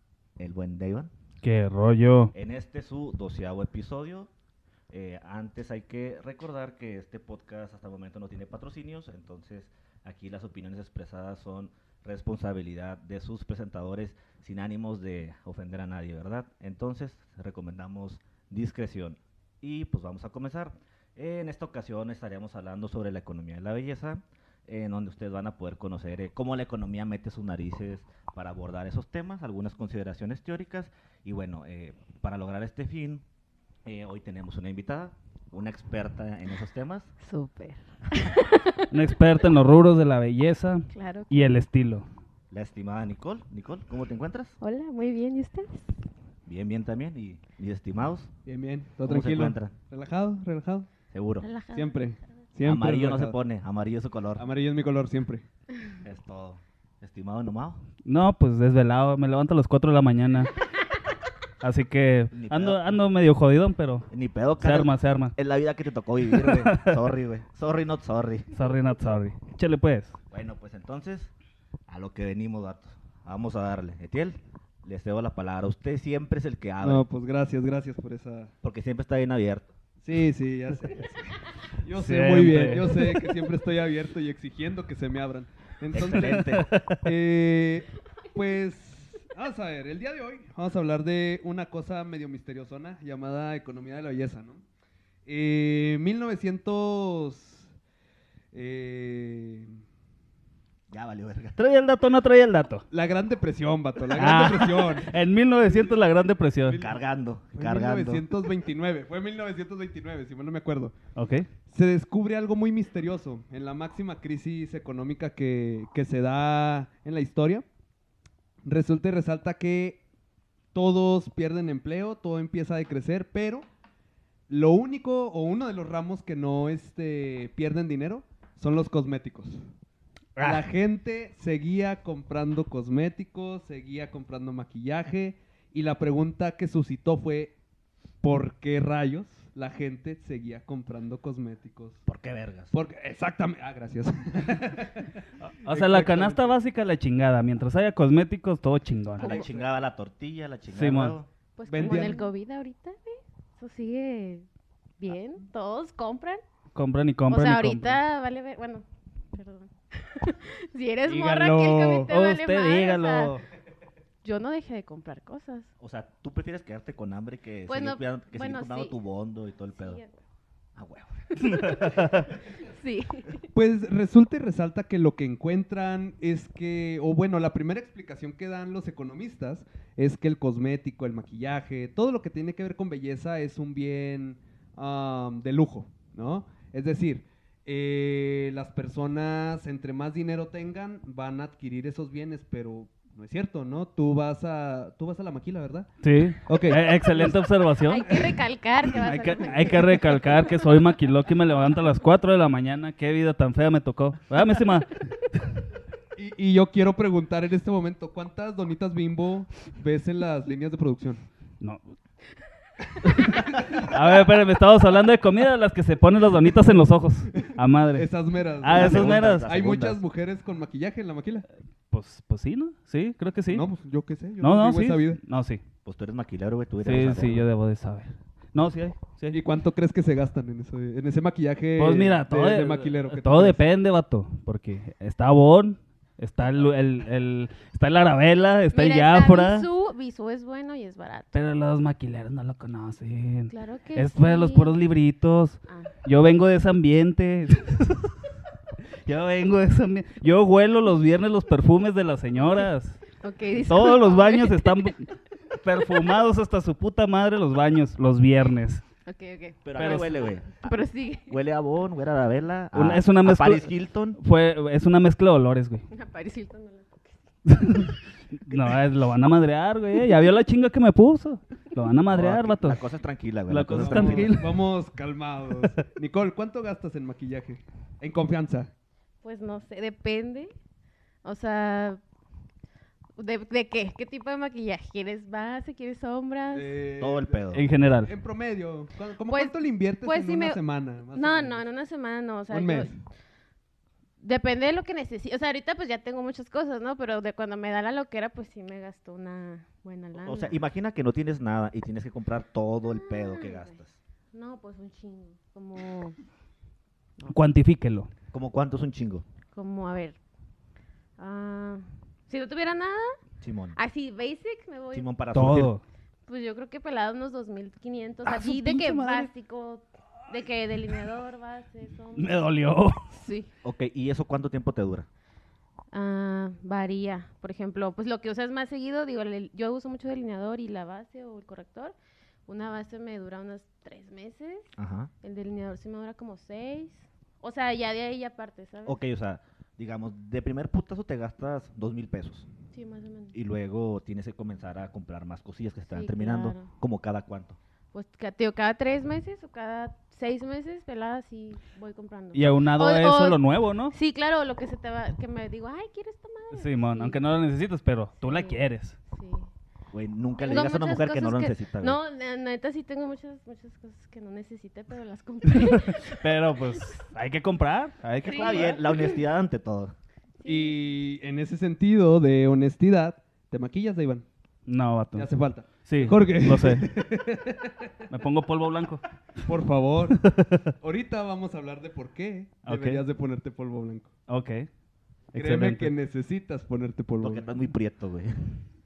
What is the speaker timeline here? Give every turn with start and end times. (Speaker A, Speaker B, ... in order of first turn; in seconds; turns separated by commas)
Speaker A: 0.4-1.1, Speaker B: 1.4-2.3, Speaker A: 2.3-4.3, Speaker A: 4.9-33.2, Speaker A: 33.9-37.1, Speaker C: 37.2-38.9, Speaker B: 38.9-42.1, Speaker C: 40.9-41.5, Speaker A: 42.5-44.6, Speaker C: 44.6-45.9, Speaker A: 46.5-48.3, Speaker D: 48.5-50.9, Speaker A: 49.0-49.7, Speaker A: 51.1-51.5, Speaker C: 51.4-52.1, Speaker D: 51.7-53.4, Speaker A: 52.6-54.5, Speaker D: 54.4-55.5, Speaker A: 56.0-57.8, Speaker B: 58.0-60.5, Speaker B: 61.6-64.1, Speaker A: 62.3-62.8, Speaker A: 64.1-68.5, Speaker B: 64.6-65.3, Speaker B: 66.3-67.0, Speaker B: 68.5-70.2, Speaker A: 70.3-71.3, Speaker A: 71.9-77.0, Speaker D: 76.8-78.5, Speaker A: 78.6-79.7, Speaker D: 80.0-94.6, Speaker B: 82.0-83.2, Speaker A: 85.9-87.0, Speaker B: 86.4-86.8, Speaker D: 95.3-97.7, Speaker D: 98.5-99.7, Speaker A: 100.9-101.6, Speaker B: 101.6-102.8, Speaker D: 102.9-105.1, Speaker B: 104.1-106.8, Speaker D: 106.7-107.0, Speaker A: 106.7-108.2, Speaker D: 107.5-110.9, Speaker B: 111.2-111.5, Speaker D: 111.7-117.7, Speaker D: 118.6-120.0, Speaker D: 120.7-123.7, Speaker D: 124.5-129.6, Speaker B: 130.4-130.6, Speaker D: 130.4-137.6, Speaker D: 138.2-142.0, Speaker A: 142.1-142.7, Speaker D: 142.7-146.5, Speaker B: 145.4-149.4, Speaker A: 149.2-151.3, Speaker D: 149.2-149.7, Speaker B: 150.7-151.2, Speaker C: 151.6-154.4, Speaker D: 151.7-152.3, Speaker B: 151.8-152.1, Speaker C: 155.0-156.4, Speaker B: 156.7-158.0, Speaker C: 157.3-163.3, Speaker D: 161.1-162.1, Speaker B: 162.1-163.4, Speaker C: 164.2-165.7, Speaker A: 165.8-170.0, Speaker C: 167.7-169.0, Speaker C: 169.8-170.1, Speaker A: 170.8-171.8, Speaker B: 171.4-172.3, Speaker C: 171.5-172.0, Speaker C: 172.6-173.5, Speaker D: 173.5-195.9, Speaker B: 196.0-198.2, Speaker D: 196.5-197.4, Speaker C: 197.8-200.7, Speaker D: 198.1-198.3, Speaker B: 199.0-205.0, Speaker D: 199.0-199.8, Speaker D: 206.2-211.2, Speaker B: 213.1-218.1, Speaker D: 213.2-213.9, Speaker D: 217.3-221.5, Speaker B: 218.6-219.5, Speaker A: 218.7-220.0, Speaker B: 221.9-223.7, Speaker D: 223.5-225.2, Speaker B: 224.4-225.6, Speaker A: 225.8-227.5, Speaker B: 226.8-229.4, Speaker D: 229.3-233.6, Speaker B: 231.8-239.7, Speaker C: 238.7-241.4, Speaker B: 241.3-248.1, Speaker C: 243.5-244.8, Speaker B: 249.0-253.0, Speaker C: 253.2-254.9, Speaker B: 253.6-258.8, Speaker C: 259.1-261.3, Speaker A: 259.6-264.2, Speaker B: 259.8-260.1, Speaker B: 262.7-265.9, Speaker C: 265.9-267.9, Speaker B: 267.5-272.8, Speaker A: 272.1-274.3, Speaker B: 273.5-274.6, Speaker D: 273.8-278.7, Speaker C: 279.2-280.5, Speaker C: 281.2-282.0, Speaker C: 283.2-286.8, Speaker D: 286.5-287.4, Speaker A: 287.0-287.7, Speaker B: 287.5-288.1, Speaker D: 288.0-291.6, Speaker C: 289.3-290.6, Speaker C: 291.1-292.9, Speaker D: 292.5-293.0, Speaker C: 294.2-300.6, Speaker A: 300.2-304.0, Speaker C: 302.9-303.8, Speaker C: 304.3-306.2, Speaker B: 307.3-308.1, Speaker A: 308.3-309.2, Speaker C: 309.5-310.2, Speaker C: 311.2-313.2, Speaker A: 313.4-313.8, Speaker C: 313.8-315.1, Speaker A: 314.9-315.7, Speaker B: 315.3-315.8, Speaker C: 316.3-322.4, Speaker B: 318.2-319.3, Speaker B: 322.2-323.0, Speaker C: 323.1-323.5, Speaker A: 323.6-325.1, Speaker C: 325.9-332.0, Speaker C: 332.5-339.0, Speaker A: 334.8-335.1, Speaker A: 338.9-342.5, Speaker C: 342.7-343.3, Speaker A: 343.3-347.6, Speaker C: 345.9-346.7, Speaker C: 347.9-353.4, Speaker B: 352.3-353.9, Speaker C: 353.9-357.2, Speaker B: 356.5-359.0, Speaker C: 358.2-359.5, Speaker A: 359.9-362.0, Speaker C: 360.4-366.8, Speaker B: 365.5-368.8, Speaker A: 368.2-369.9, Speaker C: 368.2-369.1, Speaker C: 370.4-370.8, Speaker D: 370.4-374.3, Speaker B: 374.7-375.3, Speaker D: 375.2-377.9, Speaker B: 375.9-376.9, Speaker B: 378.1-379.1, Speaker D: 379.4-380.2, Speaker B: 380.2-380.7, Speaker D: 380.8-384.1, Speaker B: 382.6-383.0, Speaker B: 384.3-384.7, Speaker B: 385.3-385.9, Speaker D: 385.4-387.5, Speaker A: 387.2-388.6